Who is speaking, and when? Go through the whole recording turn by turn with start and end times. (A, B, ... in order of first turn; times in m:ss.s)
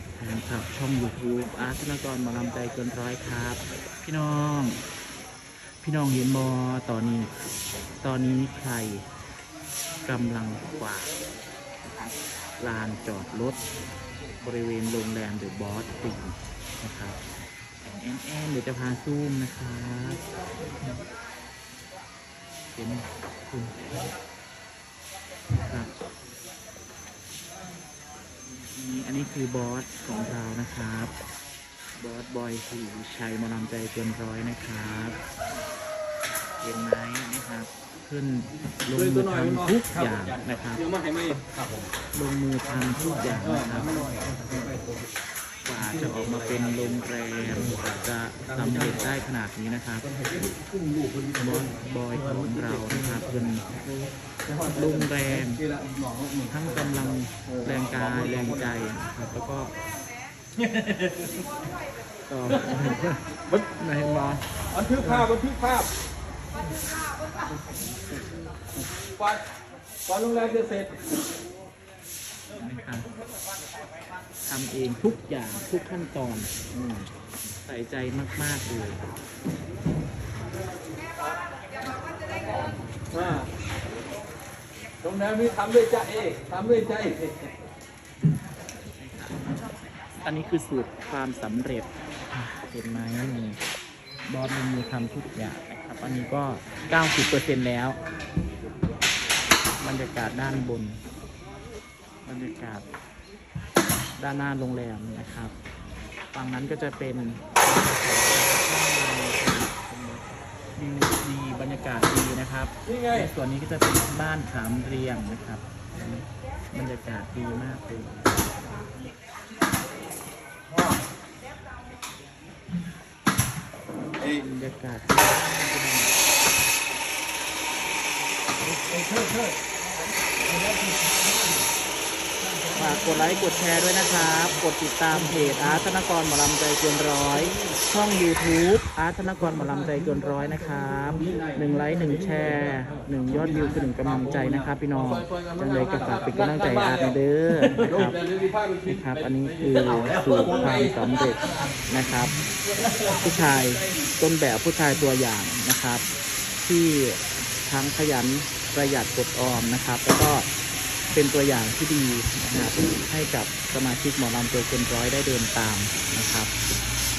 0:00.2-0:04.8 A
0:05.6-0:07.3 A
0:08.0-0:09.0 A
0:10.0-0:11.2 A
0:11.9-0:13.6 A
0:14.4-0:17.2 A
0:17.8-0:20.2 A
0:22.7-0:24.0 A
0:25.6-0:25.9 A
0:28.5-0:31.1 A
0:32.0-0:35.2 A
0:36.6-0:40.8 A
0:39.0-0:41.9 B
0:42.1-0:44.0 A
0:43.3-0:45.0 B
0:45.6-0:50.1 A
0:48.6-0:48.9 B
0:50.1-0:51.7 B
0:51.4-0:53.8 A
0:52.4-0:56.6 B
0:54.7-0:55.6 A
0:56.5-0:59.7 A
0:57.5-0:58.5 B
1:02.3-1:04.5 A
1:04.7-1:05.9 B
1:05.0-1:05.2 A
1:10.1-1:11.0 B
1:12.6-1:13.1 A
1:14.5-1:19.0 A
1:23.1-1:23.5 B
1:25.0-1:27.3 B
1:28.8-1:33.6 A
1:34.3-1:38.0 A
1:39.8-1:41.0 A
1:42.2-1:42.9 A
1:44.2-1:45.5 A
1:46.3-1:58.4 A
1:52.8-1:53.2 B
2:04.2-2:06.2 A
2:09.1-2:09.4 B
2:12.8-2:28.2 A
2:21.2-2:21.6 B
2:24.4-2:25.9 B
2:26.5-2:26.9 B
2:28.0-2:29.0 B
2:28.8-2:32.3 A
2:33.1-2:36.0 A
2:36.6-2:40.5 A
2:41.1-2:46.5 A